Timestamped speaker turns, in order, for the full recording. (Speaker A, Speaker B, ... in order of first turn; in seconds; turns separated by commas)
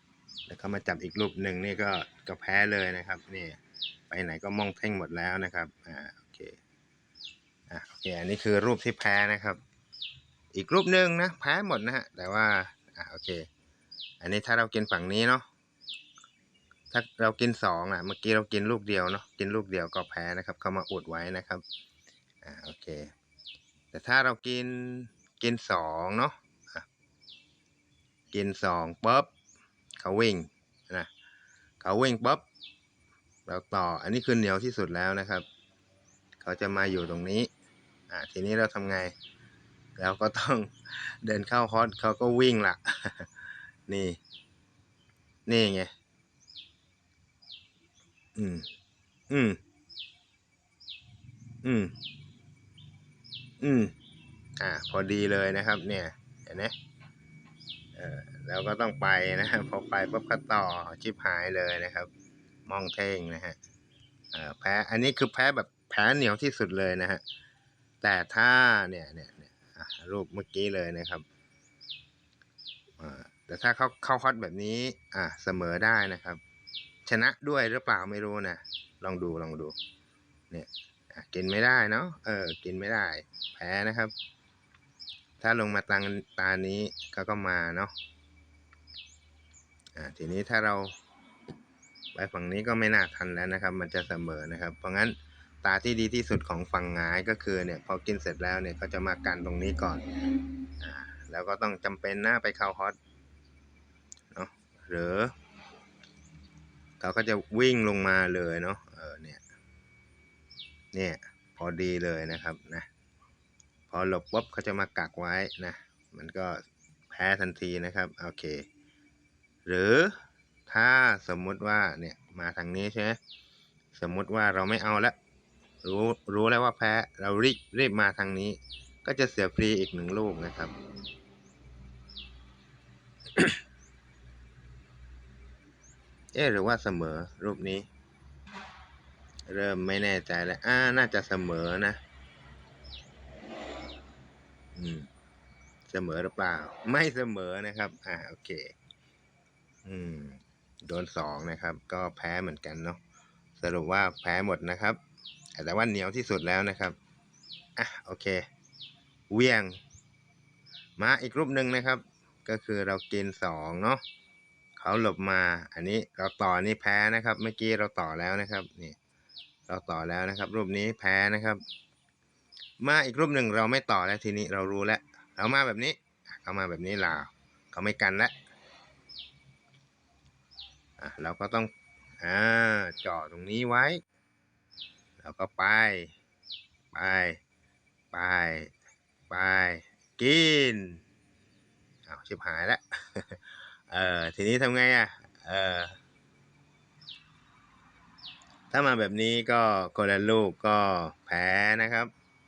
Speaker A: 0.5-3.6, Speaker A: 4.1-6.6, Speaker A: 7.7-9.6, Speaker A: 10.5-13.5, Speaker A: 14.2-15.4, Speaker A: 16.9-21.6, Speaker A: 22.4-23.1, Speaker A: 23.9-26.9, Speaker A: 28.3-29.3, Speaker A: 30.0-31.1, Speaker A: 31.8-32.4, Speaker A: 33.5-35.5, Speaker A: 36.4-37.5, Speaker A: 38.1-39.1, Speaker A: 40.0-43.3, Speaker A: 43.9-44.2, Speaker A: 45.5-45.9, Speaker A: 48.4-48.7, Speaker A: 49.3-49.6, Speaker A: 51.6-51.9, Speaker A: 53.6-53.9, Speaker A: 54.6-56.7, Speaker A: 58.0-62.1, Speaker A: 62.7-63.6, Speaker A: 64.3-67.2, Speaker A: 68.0-71.2, Speaker A: 73.0-76.4, Speaker A: 77.1-79.8, Speaker A: 80.5-84.1, Speaker A: 85.4-87.9, Speaker A: 90.0-90.9, Speaker A: 92.2-100.1, Speaker A: 100.8-103.0, Speaker A: 104.3-105.3, Speaker A: 107.0-109.4, Speaker A: 110.9-112.9, Speaker A: 113.9-118.6, Speaker A: 119.7-120.2, Speaker A: 120.7-123.2, Speaker A: 123.9-125.2, Speaker A: 125.8-130.7, Speaker A: 136.3-137.9, Speaker A: 139.5-142.0, Speaker A: 144.8-145.1, Speaker A: 145.9-148.7, Speaker A: 149.8-153.0, Speaker A: 153.6-155.0, Speaker A: 155.6-157.0, Speaker A: 157.8-158.4, Speaker A: 159.3-159.8, Speaker A: 161.0-164.0, Speaker A: 164.8-169.0, Speaker A: 169.7-171.6, Speaker A: 172.8-178.3, Speaker A: 181.0-184.0, Speaker A: 185.2-186.1, Speaker A: 186.9-187.4, Speaker A: 188.1-188.7, Speaker A: 189.3-191.0, Speaker A: 192.1-196.0, Speaker A: 198.7-202.1